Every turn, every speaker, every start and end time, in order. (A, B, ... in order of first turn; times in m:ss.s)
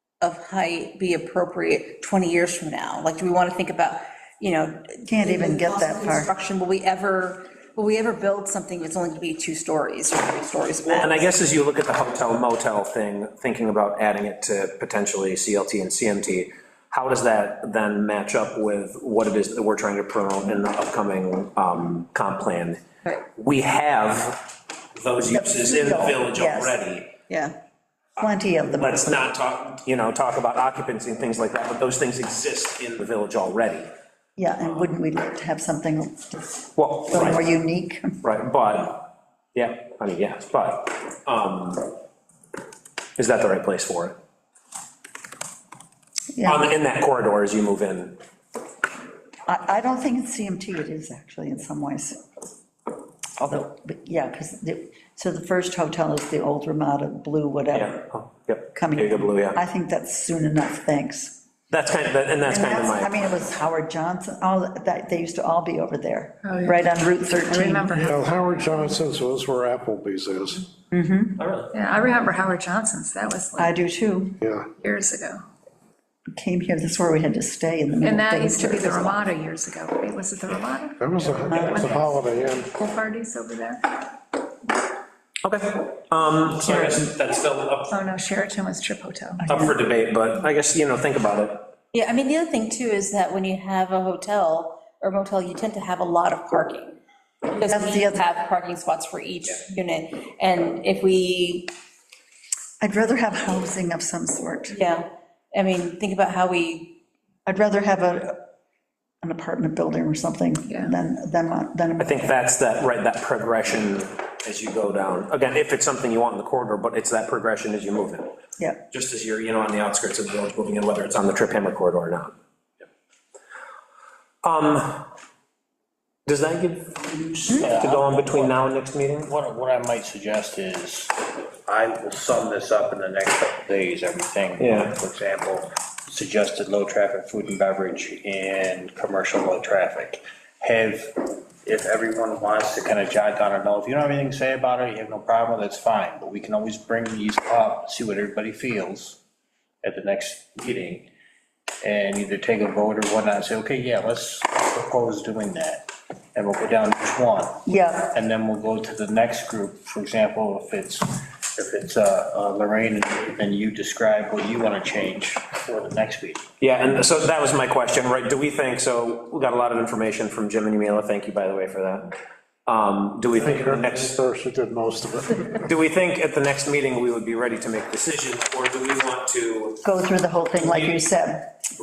0:00.2-0:11.3 A
0:05.0-0:06.3 B
0:10.8-0:22.8 C
0:23.3-0:27.1 C
0:25.3-0:26.8 B
0:27.3-0:27.6 A
0:28.2-0:29.1 B
0:28.7-0:33.9 C
0:34.4-0:36.5 B
0:36.8-0:37.4 C
0:37.1-0:38.3 B
0:38.2-0:39.0 C
0:39.5-0:41.9 C
0:43.2-0:44.2 C
0:46.4-0:46.7 B
0:46.4-0:48.2 C
0:49.4-0:52.2 B
0:53.4-0:58.0 B
0:57.7-0:59.6 C
0:58.7-1:01.4 B
1:01.7-1:03.2 C
1:02.5-1:07.9 B
1:06.4-1:06.8 D
1:07.5-1:08.2 D
1:07.9-1:10.7 E
1:10.9-1:11.4 B
1:11.4-1:11.7 C
1:11.7-1:13.7 D
1:13.6-1:14.4 B
1:14.4-1:14.7 E
1:14.8-1:15.4 D
1:16.3-1:19.2 B
1:18.0-1:23.8 D
1:21.0-1:22.7 E
1:21.5-1:21.9 B
1:25.4-1:27.9 C
1:26.8-1:27.0 B
1:27.9-1:29.5 D
1:29.4-1:29.7 B
1:29.5-1:31.7 C
1:31.9-1:41.7 A
1:37.6-1:38.2 B
1:42.8-1:44.8 B
1:44.7-1:47.0 A
1:47.4-1:48.4 B
1:49.2-1:52.3 B
1:52.0-1:58.3 C
1:58.9-2:02.3 C
2:04.4-2:05.1 C
2:06.2-2:09.3 C
2:07.5-2:08.7 F
2:09.2-2:11.1 F
2:11.6-2:29.2 F
2:14.6-2:14.9 C
2:29.8-2:31.0 F
2:31.8-2:46.4 F
2:37.6-2:38.1 B
2:46.6-2:52.1 C
2:52.6-2:54.2 C
2:53.3-2:55.6 E
2:55.6-2:59.8 C
2:59.8-3:01.5 B
3:00.6-3:01.0 C